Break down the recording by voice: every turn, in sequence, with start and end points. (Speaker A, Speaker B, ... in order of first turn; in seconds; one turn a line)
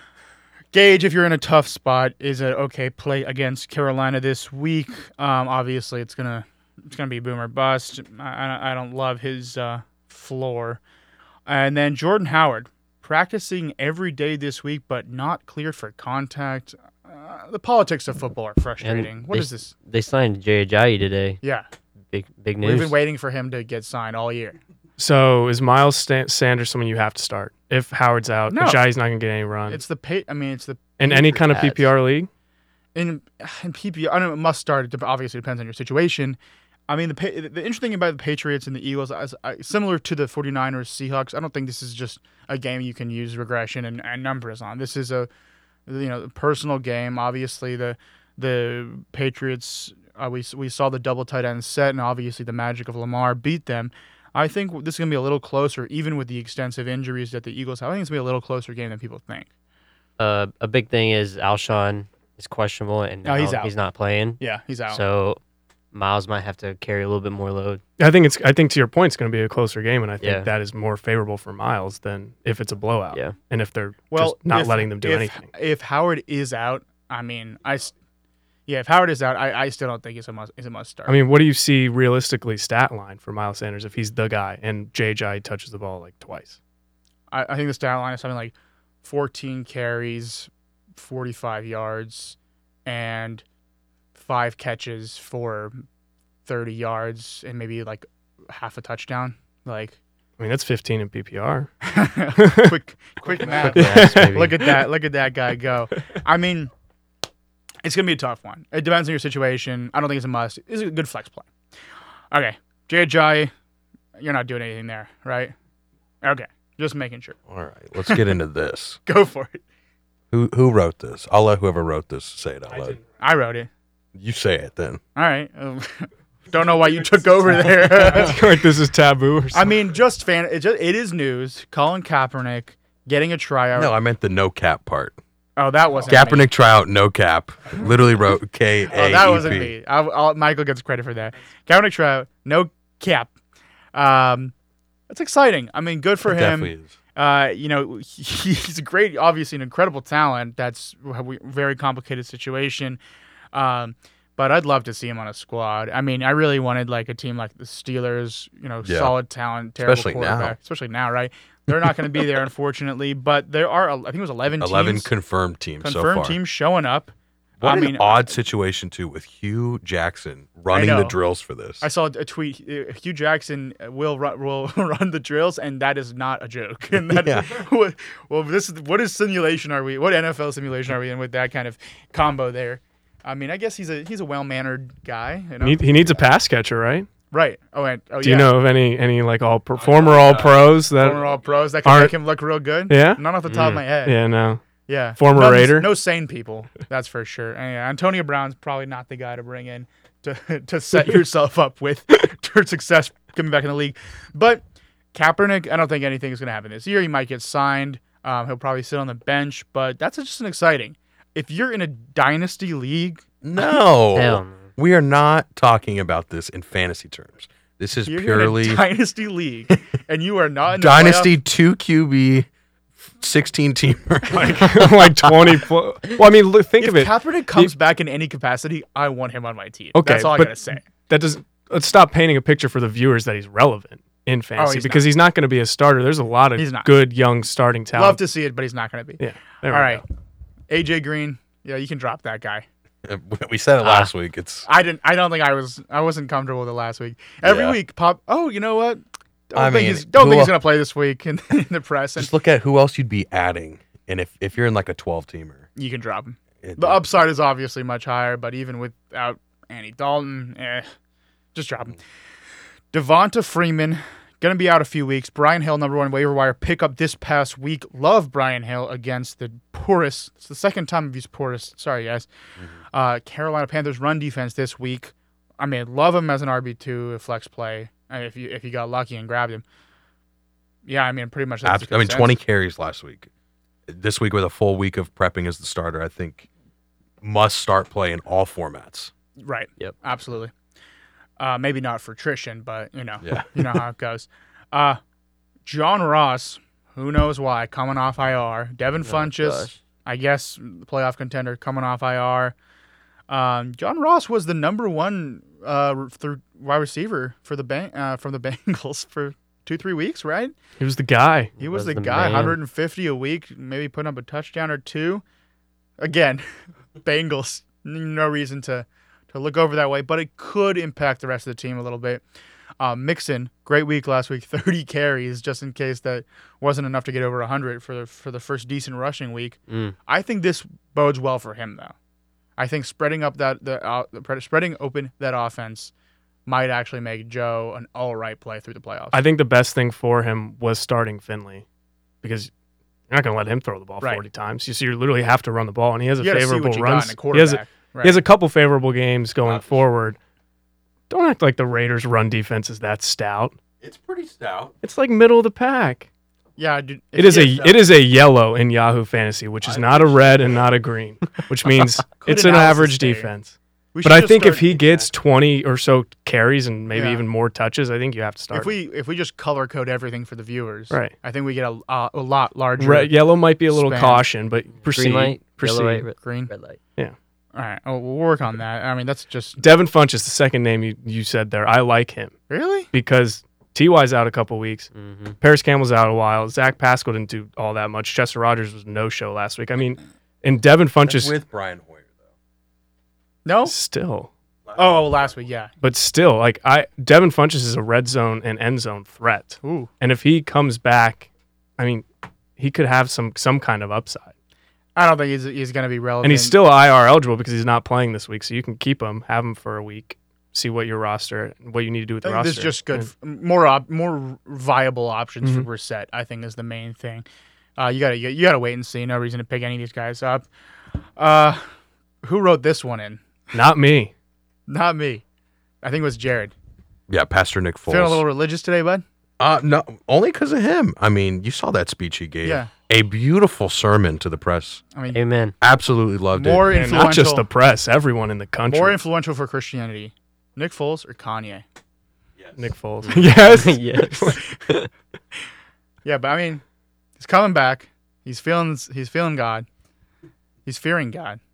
Speaker A: 0.7-10.8
Speaker A: 11.5-19.7
Speaker B: 18.8-21.4
Speaker B: 22.1-23.0
Speaker A: 22.6-24.6
Speaker C: 25.0-29.8
Speaker A: 28.5-28.8
Speaker A: 29.7-31.5
Speaker C: 31.0-32.3
Speaker B: 31.5-31.9
Speaker A: 33.0-45.3
Speaker A: 45.9-59.5
Speaker B: 60.2-65.4
Speaker A: 63.2-63.7
Speaker A: 64.4-65.0
Speaker B: 65.9-67.8
Speaker C: 68.0-75.5
Speaker B: 70.2-70.5
Speaker A: 74.1-77.9
Speaker A: 78.7-81.2
Speaker C: 81.1-86.6
Speaker A: 87.3-93.4
Speaker A: 94.2-95.8
Speaker A: 96.5-100.0
Speaker C: 100.4-101.7
Speaker A: 101.8-106.7
Speaker C: 102.4-102.7
Speaker C: 103.6-104.8
Speaker B: 103.6-104.6
Speaker A: 107.8-111.5
Speaker A: 112.3-113.5
Speaker A: 114.2-115.5
Speaker A: 116.2-117.4
Speaker D: 117.5-119.0
Speaker A: 119.1-119.6
Speaker D: 120.3-123.0
Speaker A: 123.2-123.7
Speaker D: 124.2-125.0
Speaker A: 125.2-128.4
Speaker C: 127.8-129.7
Speaker A: 129.5-133.9
Speaker D: 133.7-135.2
Speaker A: 135.6-136.5
Speaker D: 136.1-139.8
Speaker A: 138.9-143.3
Speaker A: 143.9-144.5
Speaker A: 145.1-153.0
Speaker D: 146.2-147.0
Speaker A: 153.5-165.1
Speaker D: 158.8-159.2
Speaker D: 159.8-160.6
Speaker D: 164.6-166.4
Speaker A: 165.8-168.3
Speaker D: 167.6-171.9
Speaker A: 170.7-171.2
Speaker A: 171.8-185.8
Speaker D: 177.0-177.7
Speaker C: 185.6-187.1
Speaker A: 187.3-188.5
Speaker C: 188.2-191.2
Speaker D: 189.8-190.8
Speaker A: 190.3-194.2
Speaker C: 191.8-192.2
Speaker C: 192.9-193.2
Speaker B: 193.5-193.8
Speaker C: 194.0-194.6
Speaker A: 194.9-204.6
Speaker C: 195.2-195.9
Speaker A: 205.1-213.2
Speaker D: 213.4-218.8
Speaker B: 214.2-214.7
Speaker A: 218.1-221.3
Speaker D: 220.7-222.5
Speaker D: 223.2-225.7
Speaker C: 224.3-227.7
Speaker A: 226.8-230.9
Speaker C: 229.9-238.2
Speaker A: 234.6-235.1
Speaker A: 236.6-236.9
Speaker A: 237.9-240.0
Speaker C: 239.2-240.0
Speaker A: 240.7-242.7
Speaker D: 243.0-244.7
Speaker B: 243.8-244.1
Speaker A: 244.7-252.3
Speaker D: 247.4-247.8
Speaker D: 249.5-250.6
Speaker D: 252.2-255.7
Speaker A: 255.8-260.9
Speaker D: 256.6-257.0
Speaker A: 261.6-262.0
Speaker A: 262.9-272.3
Speaker A: 272.9-279.6
Speaker A: 280.9-282.4
Speaker D: 281.6-283.3
Speaker D: 283.9-286.5
Speaker D: 287.2-289.1
Speaker A: 289.4-290.5
Speaker A: 291.4-295.0
Speaker D: 293.2-293.8
Speaker A: 295.6-302.6
Speaker B: 299.1-299.8
Speaker A: 303.3-310.5
Speaker C: 310.8-311.5
Speaker B: 311.6-312.6
Speaker A: 311.6-315.2
Speaker A: 316.0-316.5
Speaker A: 317.0-322.2
Speaker A: 322.8-331.9
Speaker B: 329.7-330.0
Speaker A: 332.6-335.9
Speaker A: 336.5-339.2
Speaker C: 339.1-341.6
Speaker C: 342.2-342.5
Speaker C: 343.1-350.2
Speaker A: 346.2-348.2
Speaker D: 349.4-349.8
Speaker C: 351.1-353.6
Speaker D: 353.8-354.8
Speaker C: 354.8-356.1
Speaker A: 356.6-357.9
Speaker C: 357.1-368.7
Speaker D: 359.6-360.7
Speaker A: 362.2-363.3
Speaker A: 363.9-364.7
Speaker D: 364.7-365.1
Speaker A: 366.9-367.2
Speaker A: 368.5-373.1
Speaker C: 372.8-376.0
Speaker A: 373.7-374.3
Speaker B: 374.8-376.8
Speaker A: 376.2-376.5
Speaker A: 377.6-379.6
Speaker C: 379.6-382.4
Speaker A: 382.5-382.9
Speaker C: 382.9-384.9
Speaker B: 384.9-385.4
Speaker C: 385.4-391.4
Speaker D: 391.1-392.2
Speaker A: 393.4-393.7
Speaker C: 393.7-394.3
Speaker D: 394.7-395.4
Speaker A: 394.8-395.7
Speaker C: 395.8-402.1
Speaker A: 399.6-399.9
Speaker C: 402.6-404.3
Speaker A: 405.0-406.6
Speaker C: 406.2-413.1
Speaker A: 412.2-417.2
Speaker C: 415.4-415.7
Speaker A: 417.8-420.4
Speaker A: 421.2-421.6
Speaker A: 422.2-423.2
Speaker C: 423.5-424.1
Speaker A: 424.7-425.2
Speaker A: 425.8-426.5
Speaker D: 427.1-428.2
Speaker A: 427.9-429.0
Speaker D: 429.4-434.8
Speaker A: 432.4-432.7
Speaker B: 435.1-435.6
Speaker D: 435.6-436.8
Speaker A: 436.3-437.4
Speaker C: 436.7-439.0
Speaker A: 438.7-441.6
Speaker D: 442.4-442.7
Speaker C: 442.6-444.4
Speaker B: 443.0-444.9
Speaker A: 446.1-446.6
Speaker A: 447.2-449.7
Speaker A: 450.7-451.4